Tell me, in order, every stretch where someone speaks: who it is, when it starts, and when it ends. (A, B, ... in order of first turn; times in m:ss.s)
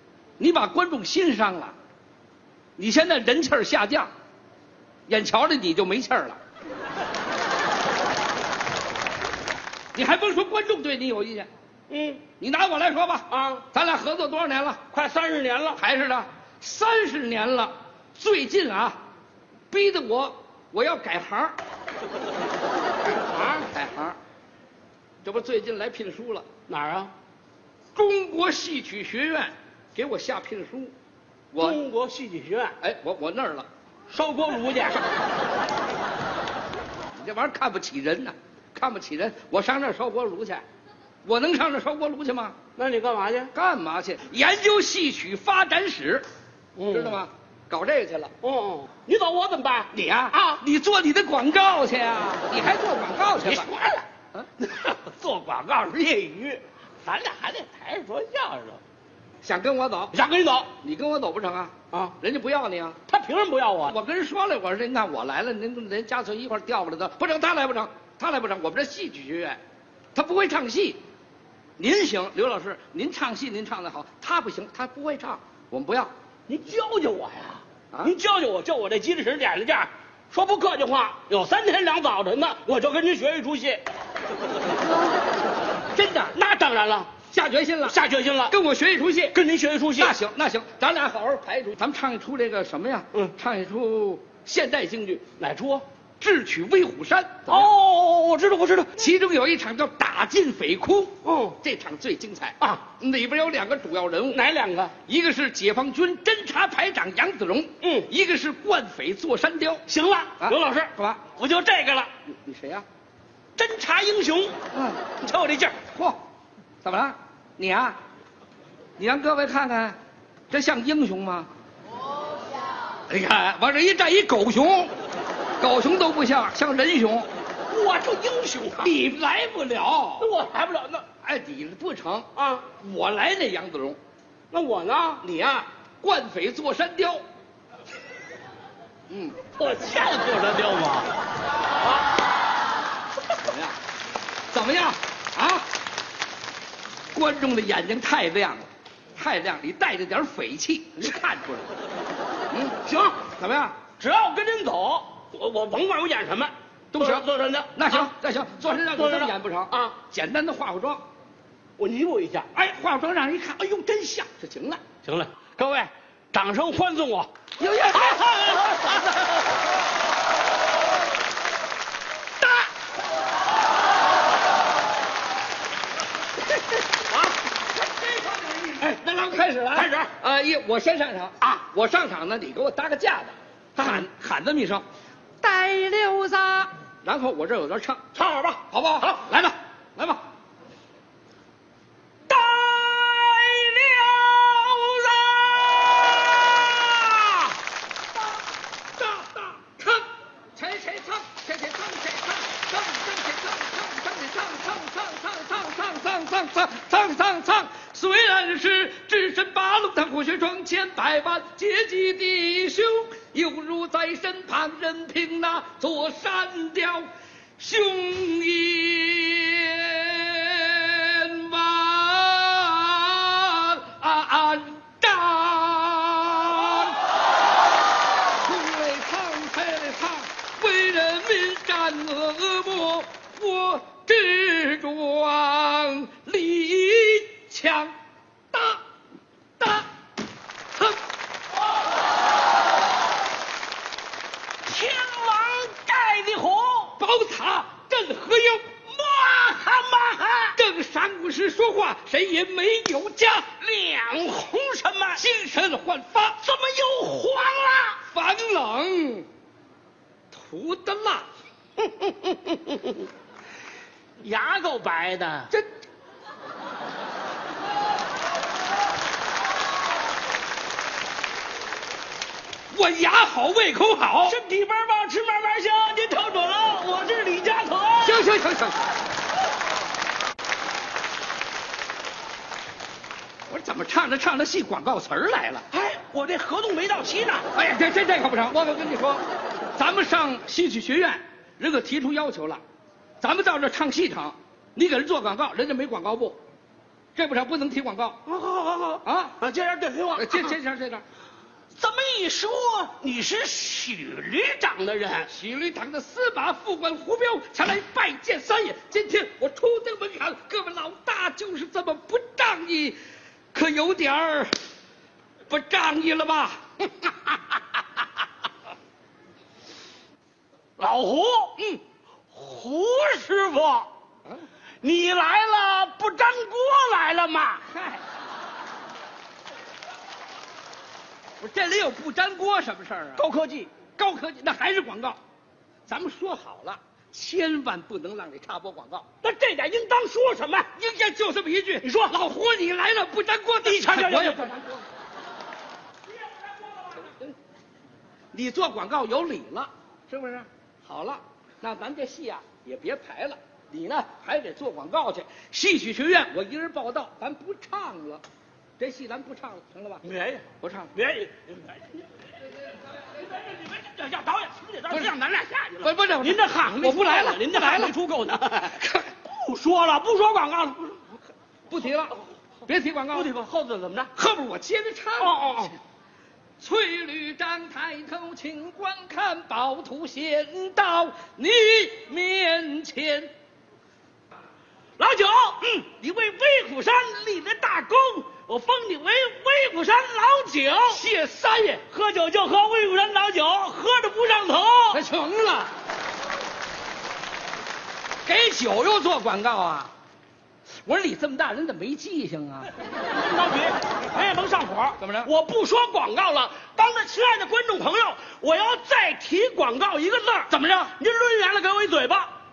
0:00.4-0:01.7 A
0:02.8-0:04.1 A
0:05.1-0:06.4 A
0:09.9-0:11.5 A
0:11.9-0:12.2 B
0:12.4-0:14.8 A
0:13.3-0:13.6 B
0:14.9-0:15.8 B
0:15.8-0:19.0 A
0:19.7-0:21.6 A
0:23.1-0:23.7 B
0:23.7-0:24.2 A
0:25.2-0:26.4 A
0:26.7-0:27.1 B
0:27.9-0:30.9 A
0:31.5-0:31.8 A
0:31.6-0:32.8 B
0:32.8-0:33.7 A
0:34.1-0:35.0 B
0:37.1-0:40.6 A
0:41.2-0:42.6 A
0:42.8-0:43.5 B
0:43.5-0:46.3 A
0:46.8-0:47.2 B
0:46.9-0:48.3 A
0:48.4-0:50.6 B
0:49.9-0:53.7 A
0:53.4-0:54.0 B
0:54.6-0:58.8 B
0:59.4-1:00.1 A
1:00.1-1:00.7 B
1:00.8-1:03.0 A
1:03.1-1:04.0 B
1:03.8-1:09.6 A
1:10.1-1:11.0 A
1:11.8-1:16.1 A
1:16.5-1:23.8 B
1:25.9-1:26.3 A
1:26.3-1:27.1 B
1:27.3-1:28.0 A
1:27.8-1:28.5 B
1:28.5-1:29.4 A
1:29.3-1:30.1 B
1:30.0-1:35.2 A
1:35.4-1:35.8 B
1:36.2-1:37.7 A
1:37.5-1:39.0 B
1:39.0-1:44.4 A
1:41.2-1:41.6 B
1:44.3-1:44.9 B
1:45.0-1:49.8 A
1:47.8-1:48.1 B
1:49.9-1:52.1 B
1:50.4-1:51.2 A
1:52.3-1:52.8 A
1:53.6-1:54.5 B
1:54.7-1:55.0 A
1:55.2-1:55.8 B
1:55.9-1:56.2 A
1:56.8-1:58.0 A
1:59.0-2:00.0 A
2:00.5-2:01.5 A
2:03.1-2:04.9 A
2:05.6-2:07.3 A
2:07.7-2:08.9 B
2:08.8-2:10.3 A
2:10.2-2:11.0 B
2:11.2-2:14.0 A
2:12.3-2:12.6 B
2:14.5-2:15.6 B
2:16.0-2:17.2 A
2:19.1-2:19.4 A
2:19.6-2:21.1 B
2:23.4-2:23.8 A
2:24.5-2:25.6 A
2:27.1-2:31.7 A
2:32.5-2:32.8 A
2:32.8-2:33.2 B
2:33.4-2:33.8 A
2:34.0-2:38.0 B
2:36.9-2:41.0 A
2:38.9-2:39.9 B
2:41.8-2:42.5 B
2:42.5-2:44.8 A
2:45.0-2:47.3 B
2:47.6-2:49.0 A
2:47.9-2:49.3 B
2:57.8-3:04.8 A
2:58.8-3:00.1 B
3:05.4-3:08.0 A
3:08.1-3:09.2 B
3:08.7-3:10.2 A
3:12.3-3:17.6 B
3:19.0-3:47.0 A
3:48.4-3:58.0 A
3:58.5-3:58.8 A
3:59.6-3:59.9 A
4:04.6-4:07.0 B
4:07.0-4:08.7 A
4:08.9-4:10.6 B
4:10.5-4:13.5 A
4:13.6-4:15.2 B
4:15.2-4:16.4 A
4:16.4-4:18.0 B
4:18.1-4:19.3 A
4:20.3-4:21.2 A
4:22.0-4:22.8 B
4:24.2-4:25.5 B
4:32.7-4:34.4 A
4:34.2-4:38.3 B
4:38.0-4:38.8 A
4:43.5-4:45.6 A
4:45.7-4:47.5 B
4:47.5-4:49.2 A
4:49.8-4:52.6 A
4:53.2-4:56.4 A
4:57.1-4:58.2 A
4:58.2-5:00.5 B
4:59.0-4:59.4 A
5:00.2-5:01.0 A
5:01.7-5:05.3 B
5:05.3-5:13.0 A
5:13.5-5:14.5 A
5:15.5-5:16.6 A
5:20.8-5:21.6 B
5:22.3-5:23.9 B
5:24.8-5:27.6 B
5:27.6-5:28.0 A
5:31.4-5:33.2 A
5:33.2-5:33.7 B
5:34.0-5:35.2 A
5:35.9-5:39.0 A
5:39.2-5:40.7 B
5:40.7-5:44.8 A
5:41.8-5:42.2 B
5:43.6-5:44.5 B
5:47.0-5:47.3 A
5:48.3-5:58.2 A
5:58.8-6:00.0 A
6:00.0-6:01.9 B
6:00.6-6:00.9 A
6:03.1-6:11.0 B
6:05.8-6:07.9 A
6:08.6-6:09.1 A
6:11.7-6:13.3 A
6:13.1-6:14.1 B
6:14.1-6:15.7 A
6:15.2-6:15.7 B
6:16.6-6:23.3 A
6:25.0-6:31.0 B
6:30.9-6:31.8 A
6:31.9-6:35.0 B
6:34.9-6:35.7 A
6:38.2-6:39.9 A
6:40.8-6:42.7 A
6:43.0-6:52.3 B
6:45.0-6:45.3 A
6:50.5-6:51.0 A